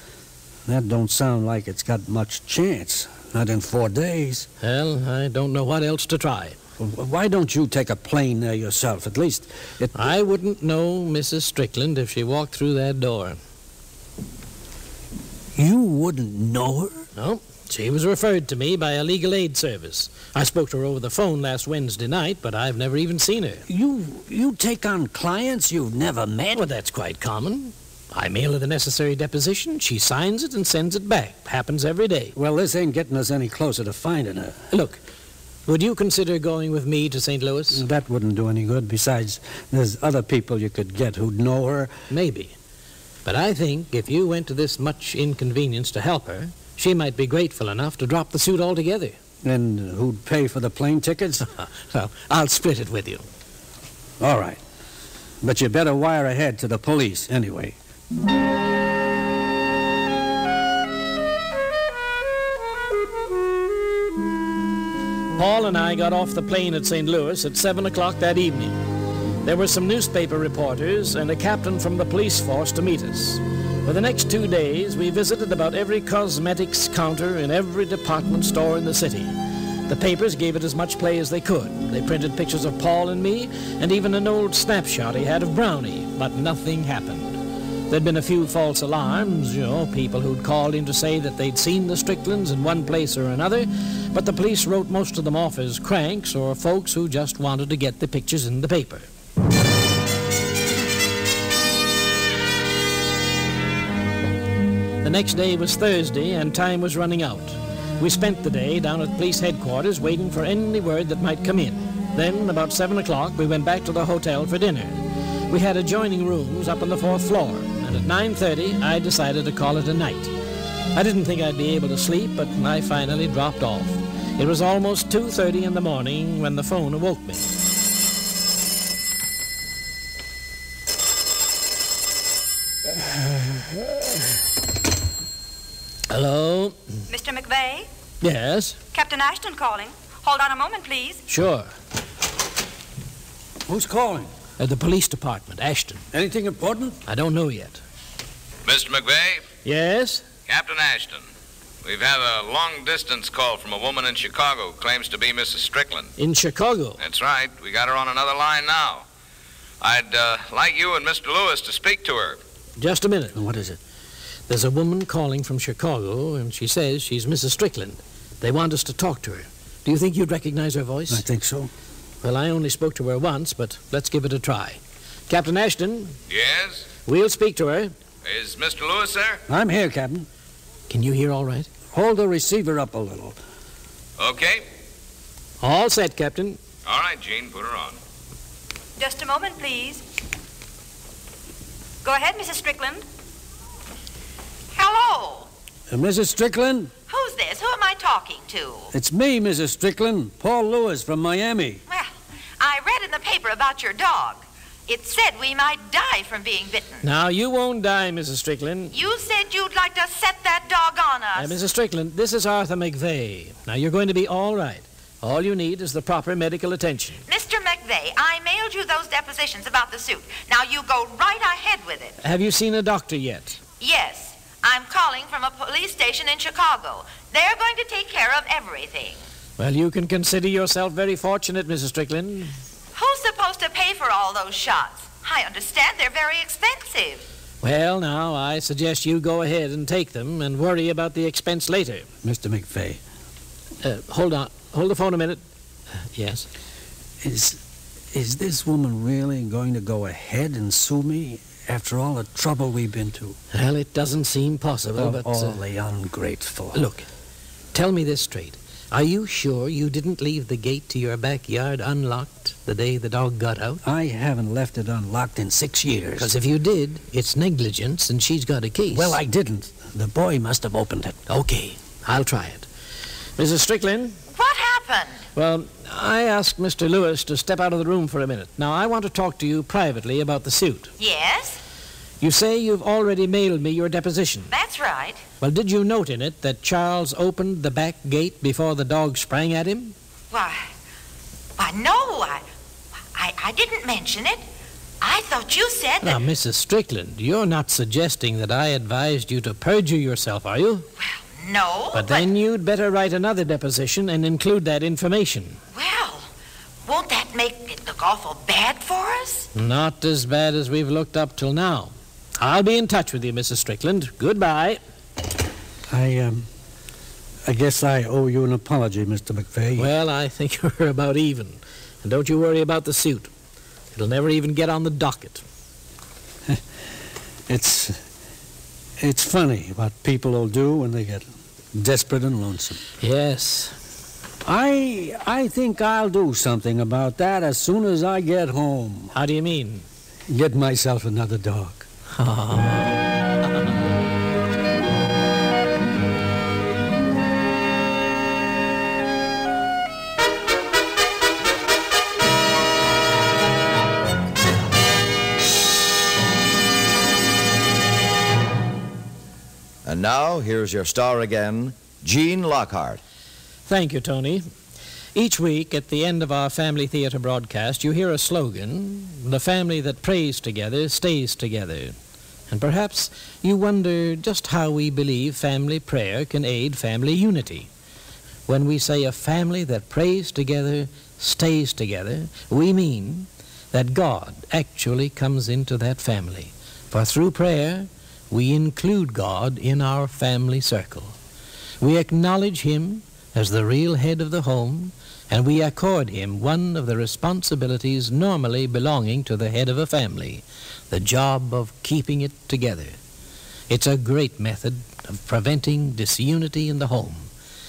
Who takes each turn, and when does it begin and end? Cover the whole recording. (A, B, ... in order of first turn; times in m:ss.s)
0:00.7-0:04.5 A
0:04.6-0:06.6 B
0:06.8-0:10.1 A
0:09.9-0:13.4 B
0:15.6-0:17.0 A
0:17.2-0:23.6 B
0:23.7-0:26.7 A
0:26.5-0:32.3 B
0:32.4-0:34.6 A
0:34.7-0:35.0 B
0:35.7-0:37.8 B
0:37.7-0:41.9 A
0:42.1-0:42.5 B
0:43.2-0:49.2 B
0:49.4-0:51.5 A
0:51.4-0:53.2 B
0:54.2-0:54.6 A
0:55.4-0:57.8 A
1:05.4-1:08.8 B
1:09.4-1:19.3 B
1:19.9-1:27.4 B
1:27.9-1:39.1 B
1:45.0-2:00.3 B
2:00.9-2:07.5 B
2:16.1-2:16.8 B
2:17.1-2:17.9 C
2:18.2-2:18.8 B
2:18.9-2:21.2 C
2:21.3-2:21.7 B
2:23.7-2:24.3 A
2:24.6-2:26.0 B
2:26.1-2:27.0 A
2:27.1-2:27.8 B
2:28.6-2:29.5 D
2:29.6-2:30.3 B
2:30.5-2:31.3 D
2:31.8-2:36.1 D
2:36.2-2:37.0 B
2:37.0-2:39.0 D
2:39.8-2:42.4 D
2:42.8-2:43.4 B
2:43.3-2:43.8 A
2:44.5-2:51.2 B
2:51.1-2:51.7 A
2:52.2-2:56.2 B
2:56.3-2:56.9 D
2:57.1-2:57.9 B
2:58.2-2:59.4 D
2:59.5-3:00.3 A
3:00.9-3:01.7 B
3:01.9-3:03.4 A
3:04.2-3:04.6 D
3:05.6-3:06.6 B
3:06.9-3:08.0 D
3:09.0-3:10.0 C
3:12.0-3:13.0 C
3:14.7-3:15.5 E
3:15.9-3:16.9 A
3:17.1-3:18.9 E
3:18.9-3:21.8 A
3:21.9-3:27.1 E
3:27.0-3:28.9 B
3:28.9-3:31.6 E
3:31.4-3:37.2 B
3:37.3-3:42.2 E
3:42.2-3:43.6 B
3:43.8-3:49.2 E
3:49.6-3:52.5 B
3:53.0-3:57.2 E
3:57.6-4:02.1 B
4:02.2-4:03.0 A
4:03.8-4:05.4 B
4:06.2-4:06.5 B
4:07.2-4:07.6 A
4:08.1-4:13.4 A
4:13.5-4:15.6 B
4:15.0-4:16.9 A
4:16.7-4:17.0 B
4:17.7-4:23.8 B
4:23.8-4:26.3 A
4:26.2-4:29.2 B
4:28.9-4:31.2 A
4:31.3-4:32.7 B
4:33.4-4:34.2 B
4:34.3-4:35.2 E
4:35.4-4:40.9 B
4:41.0-4:41.6 E
4:42.2-4:44.5 B
4:44.5-4:45.2 E
4:45.4-4:50.0 B
4:50.3-4:50.7 E
4:51.6-4:52.4 E
4:53.1-4:54.4 E
4:55.0-4:56.2 E
4:56.0-5:00.9 B
5:01.0-5:02.3 E
5:01.9-5:05.6 B
5:05.8-5:06.3 E
5:06.9-5:09.5 E
5:09.5-5:14.8 B
5:15.9-5:16.5 A
5:17.4-5:19.9 A
5:19.8-5:23.3 B
5:23.9-5:25.4 B
5:27.5-5:28.0 A
5:29.0-5:32.8 A
5:33.0-5:33.7 B
5:34.4-5:39.1 A
5:39.1-5:39.8 B
5:40.3-5:41.8 A
5:42.1-5:43.0 B
5:59.8-6:03.0 F
6:03.7-6:04.5 B
6:05.2-6:12.0 B
6:12.5-6:17.7 B
6:18.5-6:31.2 B
6:31.8-6:43.0 B
6:43.7-6:47.3 B